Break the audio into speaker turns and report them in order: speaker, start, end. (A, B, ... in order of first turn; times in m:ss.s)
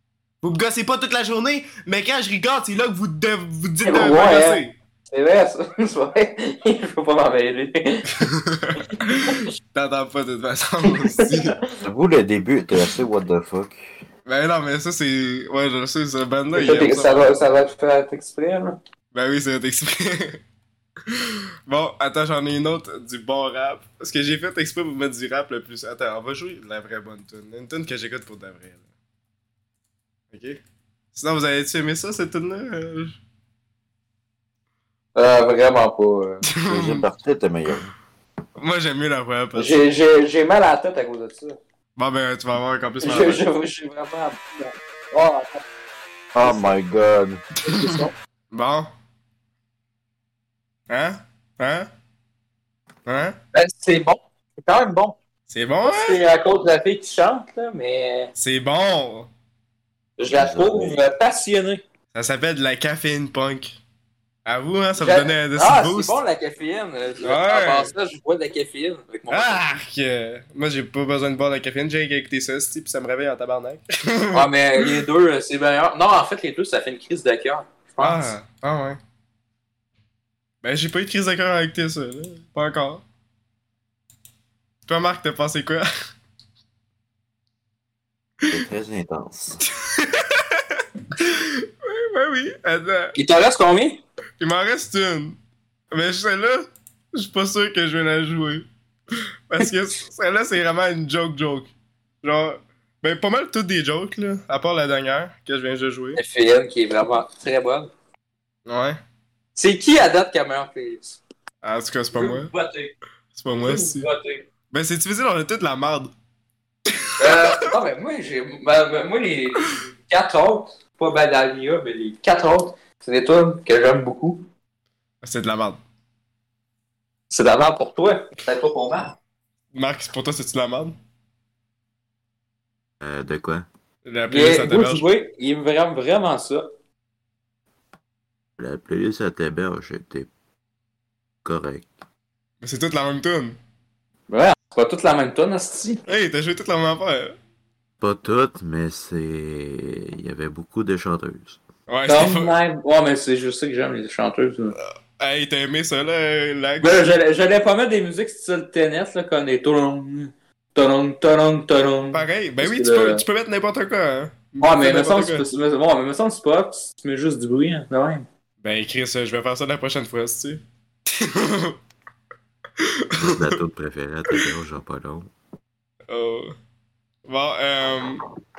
0:00.4-0:04.7 A
0:03.8-0:08.2 B
0:08.1-0:11.6 A
0:08.9-0:09.5 B
0:10.8-0:11.6 B
0:11.8-0:14.0 C
0:14.2-0:17.4 A
0:16.5-0:18.8 B
0:19.1-0:20.4 A
0:21.1-0:28.8 A
0:30.3-0:30.6 A
0:31.1-0:33.2 A
0:35.2-0:36.4 B
0:36.4-0:37.1 A
0:36.6-0:37.9 C
0:38.6-0:39.8 A
0:39.5-0:41.6 B
0:42.0-0:43.4 A
0:43.0-0:45.6 B
0:46.3-0:47.4 C
0:46.4-0:46.8 B
0:47.6-0:48.1 B
0:47.7-0:48.9 A
0:50.9-0:51.9 A
0:53.0-0:53.4 A
0:53.5-0:55.2 B
0:55.5-0:56.2 A
0:55.8-0:58.3 B
0:58.4-0:59.3 A
1:00.2-1:01.8 B
1:00.3-1:01.0 C
1:02.1-1:03.8 A
1:04.4-1:06.2 A
1:05.0-1:09.6 B
1:07.2-1:07.9 A
1:09.3-1:15.0 A
1:14.3-1:18.3 B
1:18.0-1:19.0 A
1:20.6-1:23.0 A
1:24.9-1:25.9 A
1:28.5-1:29.6 C
1:29.6-1:33.2 A
1:33.2-1:34.0 B
1:34.4-1:35.4 A
1:35.9-1:38.6 A
1:39.5-1:41.7 A
1:42.2-1:46.2 A
1:46.2-1:47.9 B
1:48.6-1:49.0 A
1:49.5-1:51.2 B
1:51.6-1:52.5 A
1:52.1-1:52.9 B
1:53.3-1:54.1 A
1:53.6-1:54.4 B
1:54.7-1:56.1 A
1:56.9-1:57.5 A
1:57.2-2:04.5 B
2:05.2-2:05.8 A
2:07.3-2:09.2 B
2:09.7-2:11.0 A
2:13.0-2:13.6 C
2:14.0-2:15.1 A
2:14.3-2:16.7 B
2:18.6-2:20.3 C
2:21.4-2:21.9 C
2:22.6-2:23.6 A
2:24.3-2:26.0 B
2:26.1-2:27.3 A
2:28.0-2:31.6 C
2:31.9-2:32.5 A
2:32.1-2:34.8 B
2:34.8-2:37.0 A
2:36.8-2:43.2 B
2:42.1-2:45.4 A
2:44.6-2:48.3 B
2:48.6-2:51.8 A
2:52.8-2:53.6 A
2:53.2-2:55.3 C
2:56.1-2:56.5 A
2:57.2-2:58.2 A